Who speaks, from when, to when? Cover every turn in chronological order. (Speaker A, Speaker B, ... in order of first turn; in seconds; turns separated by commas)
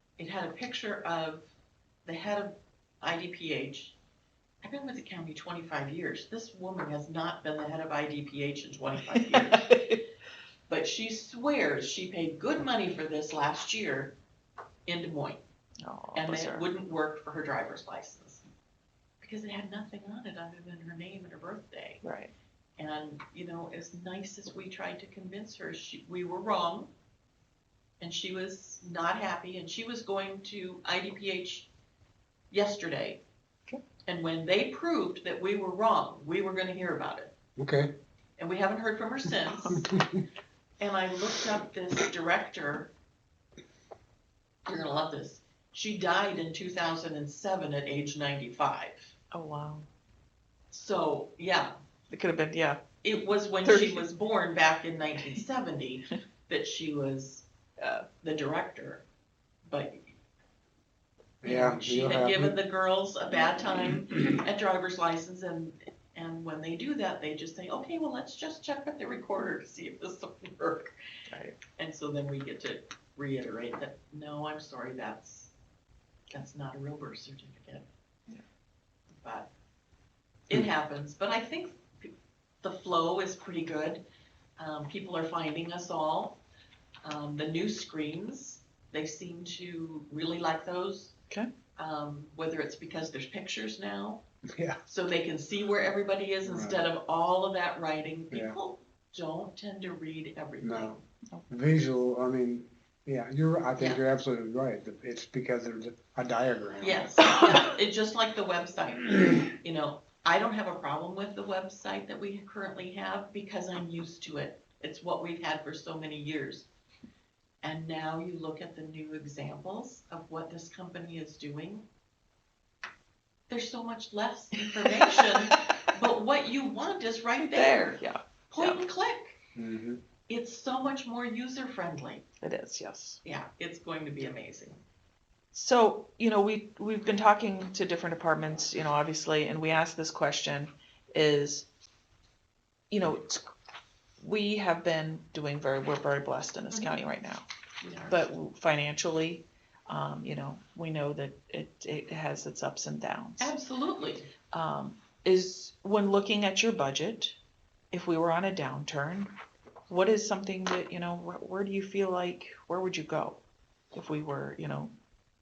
Speaker A: 0.2-1.5, Speaker A: 2.0-4.0, Speaker A: 4.6-9.7, Speaker B: 9.1-10.0, Speaker A: 10.7-14.1, Speaker A: 14.8-15.4, Speaker B: 15.8-16.6, Speaker A: 16.1-18.4, Speaker A: 19.2-22.0, Speaker B: 22.0-22.3, Speaker A: 22.8-26.9, Speaker A: 28.0-31.7, Speaker A: 32.5-33.2, Speaker A: 34.0-37.3, Speaker C: 37.6-37.9, Speaker A: 38.4-39.9, Speaker C: 39.7-40.2, Speaker A: 40.8-42.9, Speaker A: 44.6-49.1, Speaker B: 49.3-49.9, Speaker A: 50.7-51.7, Speaker B: 52.1-52.8, Speaker A: 53.0-57.5, Speaker B: 53.6-54.0, Speaker A: 58.2-59.0, Speaker A: 59.6-60.1, Speaker C: 61.4-62.6, Speaker A: 61.4-70.9, Speaker B: 71.3-71.6, Speaker A: 71.8-75.5, Speaker A: 76.3-77.8, Speaker A: 79.2-79.5, Speaker A: 80.5-84.0, Speaker A: 84.6-86.4, Speaker A: 87.0-91.2, Speaker A: 91.8-94.2, Speaker C: 94.5-94.8, Speaker A: 94.9-101.0, Speaker C: 96.4-96.8, Speaker C: 100.6-101.0, Speaker C: 101.5-107.6, Speaker A: 106.8-116.7, Speaker A: 117.6-121.9, Speaker A: 123.5-129.4, Speaker B: 124.8-125.7, Speaker B: 127.4-128.8, Speaker C: 129.6-130.0, Speaker A: 130.3-132.3, Speaker B: 132.4-133.2, Speaker A: 133.2-134.8, Speaker B: 135.5-141.7, Speaker B: 142.9-143.5, Speaker B: 144.2-147.4, Speaker A: 146.7-147.0, Speaker A: 147.8-148.2, Speaker B: 148.1-153.6, Speaker A: 153.4-154.3, Speaker B: 154.5-157.3, Speaker B: 157.9-159.3, Speaker B: 159.9-163.4, Speaker B: 163.9-164.9